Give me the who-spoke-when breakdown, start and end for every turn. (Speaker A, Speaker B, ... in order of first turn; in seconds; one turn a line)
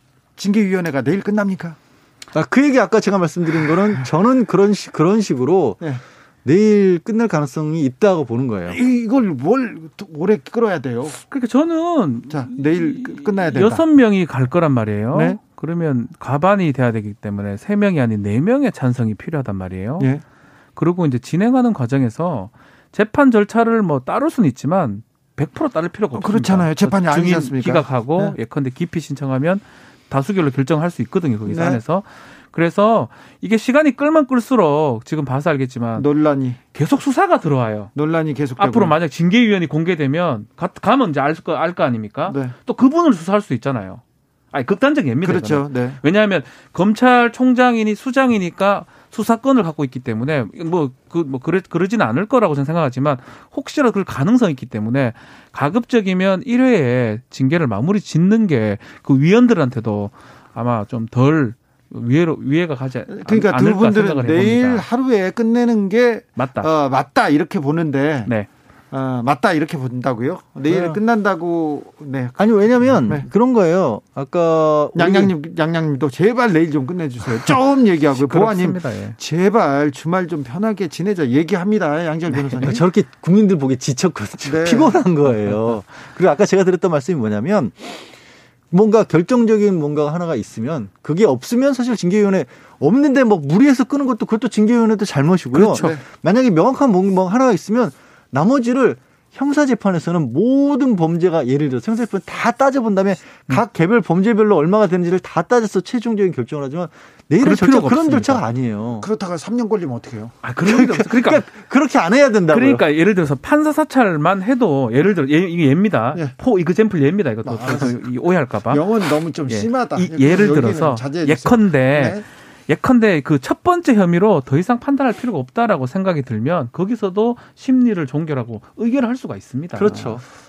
Speaker A: 0.4-1.8
Speaker B: 2.3-5.8
Speaker B: 6.4-8.8
Speaker A: 8.7-11.2
Speaker C: 11.2-20.1
Speaker A: 12.3-13.8
Speaker A: 15.1-15.4
Speaker C: 20.8-36.1
Speaker A: 26.1-28.4
Speaker A: 31.5-31.8
Speaker A: 36.0-36.6
Speaker C: 36.7-37.9
Speaker A: 37.9-39.0
Speaker C: 38.6-64.8
Speaker A: 42.3-42.5
Speaker A: 45.2-46.0
Speaker A: 63.1-68.3
Speaker C: 66.4-66.7
Speaker A: 68.9-73.3
Speaker B: 70.7-71.0
Speaker B: 72.4-75.3
Speaker A: 74.9-82.8
Speaker C: 78.2-79.2
Speaker B: 82.5-88.1
Speaker A: 84.4-85.0
Speaker B: 88.7-109.0
Speaker C: 95.5-96.0
Speaker A: 95.7-96.0
Speaker C: 107.4-108.4
Speaker A: 109.0-110.4
Speaker C: 110.4-111.5
Speaker B: 110.6-112.8
Speaker C: 112.5-130.2
Speaker A: 117.4-117.9
Speaker A: 118.7-122.2
Speaker B: 129.7-130.2